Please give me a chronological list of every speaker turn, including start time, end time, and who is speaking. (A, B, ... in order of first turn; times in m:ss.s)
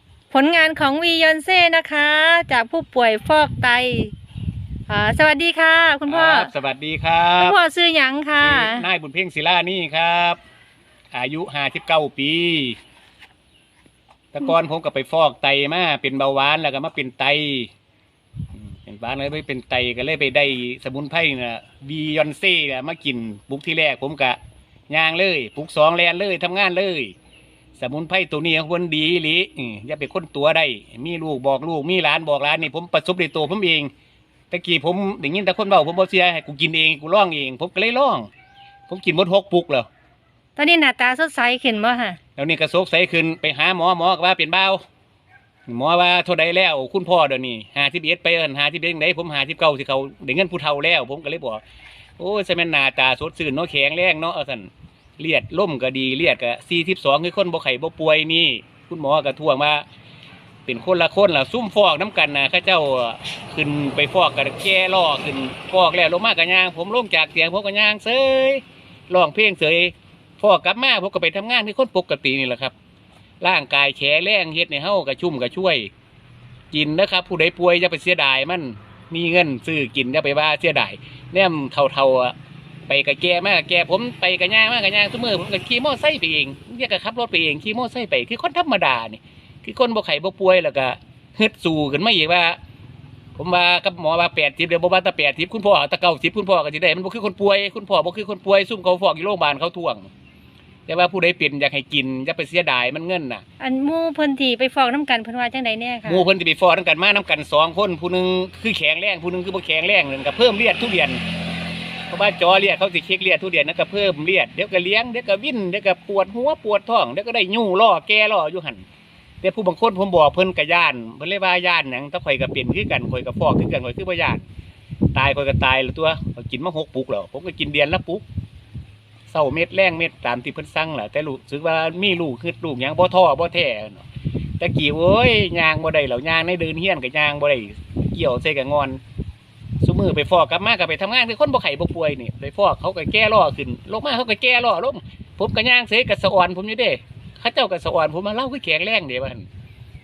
0:00.3-0:04.1 A
0:04.9-0:06.5 A
0:06.1-0:07.6 B
0:07.4-0:08.8 A
0:08.4-0:10.4 B
0:11.1-0:12.8 B
0:14.3-0:17.7 B
0:18.5-0:24.4 B
0:24.9-0:27.1 B
0:27.8-0:33.9 B
0:34.5-0:38.3 B
0:38.9-0:39.9 B
0:40.6-0:42.2 A
0:42.4-0:44.8 B
0:45.7-0:51.6 B
0:52.2-0:59.8 B
1:00.6-1:12.7 B
1:13.4-1:15.9 B
1:16.7-1:22.3 B
1:22.9-1:32.6 B
1:33.3-1:40.1 B
1:40.9-1:43.4 B
1:43.6-1:46.2 A
1:46.0-1:51.2 B
1:52.1-1:58.8 B
1:59.4-2:04.4 B
2:05.1-2:08.2 B
2:09.3-2:14.0 B
2:14.6-2:19.0 B
2:19.8-2:29.4 B